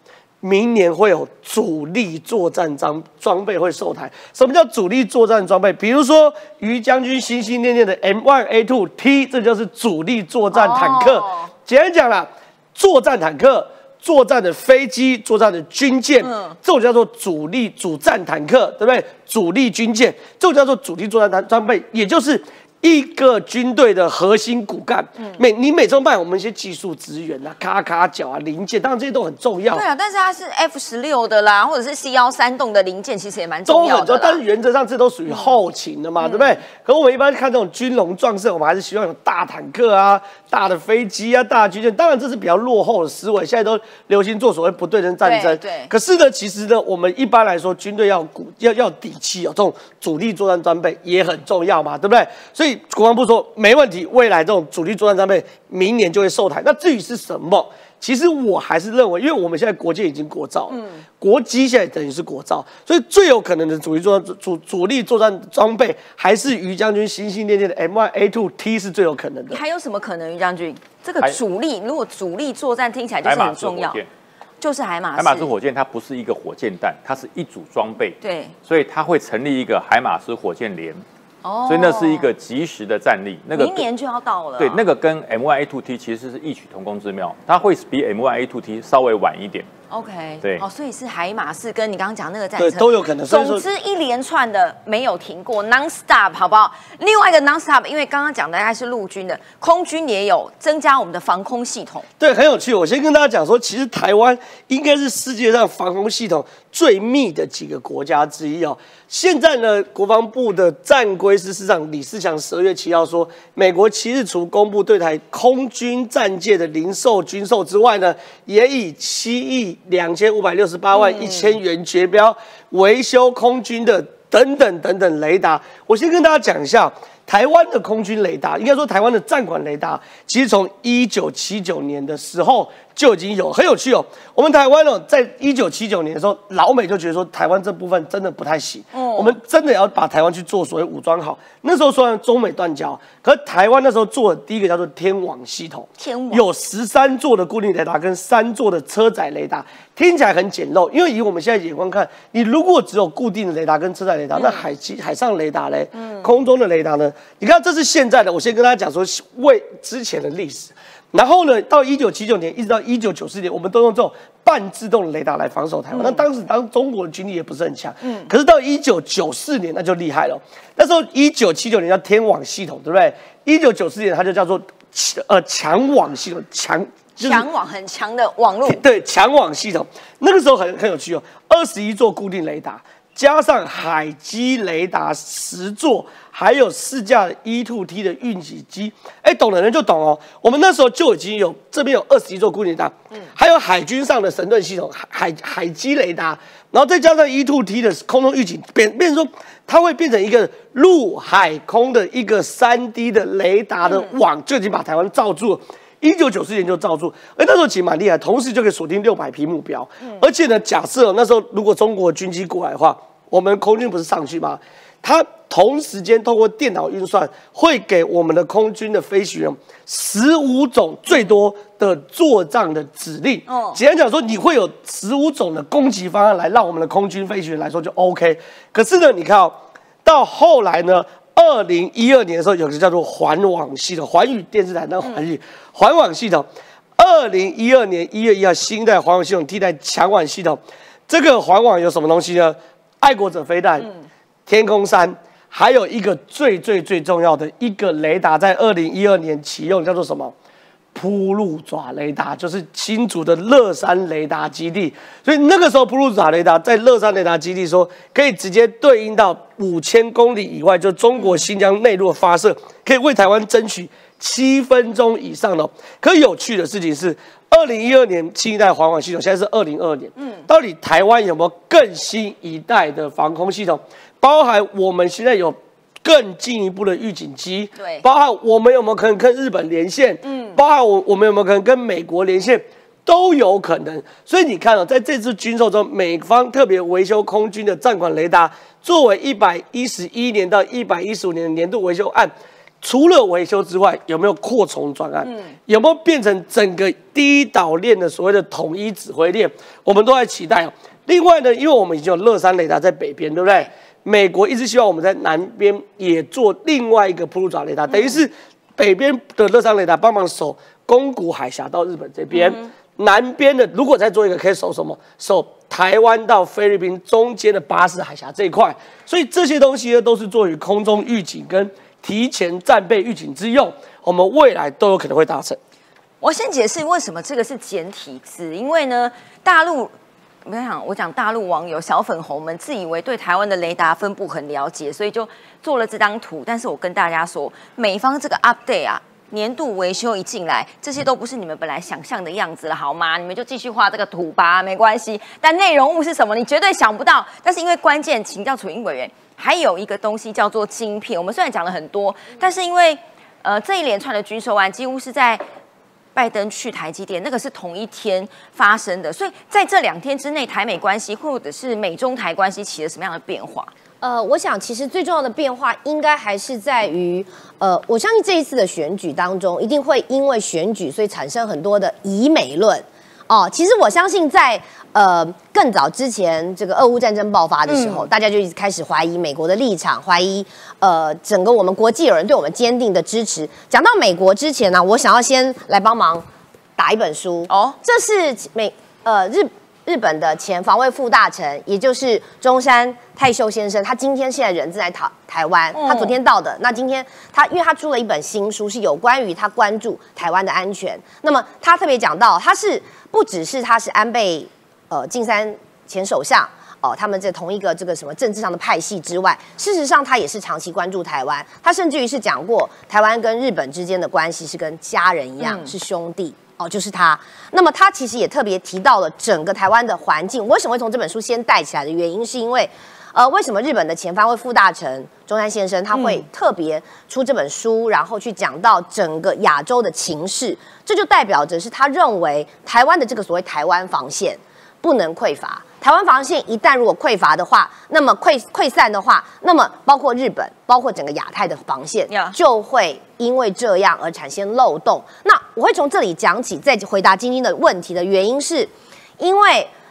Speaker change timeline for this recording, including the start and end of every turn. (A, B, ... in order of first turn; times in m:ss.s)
0:00.4-0:29.8 A
0:10.5-0:11.5 B
0:16.2-0:16.6 B
0:29.7-0:34.4 B
0:33.6-1:09.6 A
0:36.2-0:36.6 B
0:45.2-0:45.9 B
1:00.7-1:01.0 B
1:09.5-1:14.0 B
1:13.2-1:14.1 C
1:14.6-1:15.5 B
1:15.2-1:21.0 C
1:18.2-1:18.5 B
1:21.4-1:22.3 B
1:21.7-1:23.8 C
1:23.5-1:24.8 B
1:24.6-1:29.7 C
1:29.9-1:42.1 B
1:32.6-1:33.6 A
1:42.2-2:57.5 A
2:00.9-2:01.5 B
2:18.9-2:19.4 B
2:26.0-2:26.4 B
2:34.4-2:34.6 B
2:35.9-2:36.3 B
2:45.9-2:46.2 B
2:48.0-2:48.3 B
2:57.2-2:58.8 B
2:58.6-4:03.9 A
3:23.9-3:24.1 B
3:43.5-3:43.8 B
4:04.5-4:10.3 A
4:10.9-5:25.6 A
4:30.2-4:30.4 B
4:37.8-4:38.0 B
4:40.2-4:40.6 B
5:07.9-5:08.2 B
5:12.3-5:12.6 B
5:26.2-5:29.9 B
5:30.4-5:55.4 B
5:56.1-6:03.7 B
6:04.0-6:26.2 D
6:17.7-6:18.0 B
6:26.8-7:29.7 D
6:27.5-6:27.8 B
6:35.7-6:36.2 B
6:55.4-6:55.7 B
7:22.1-7:22.4 B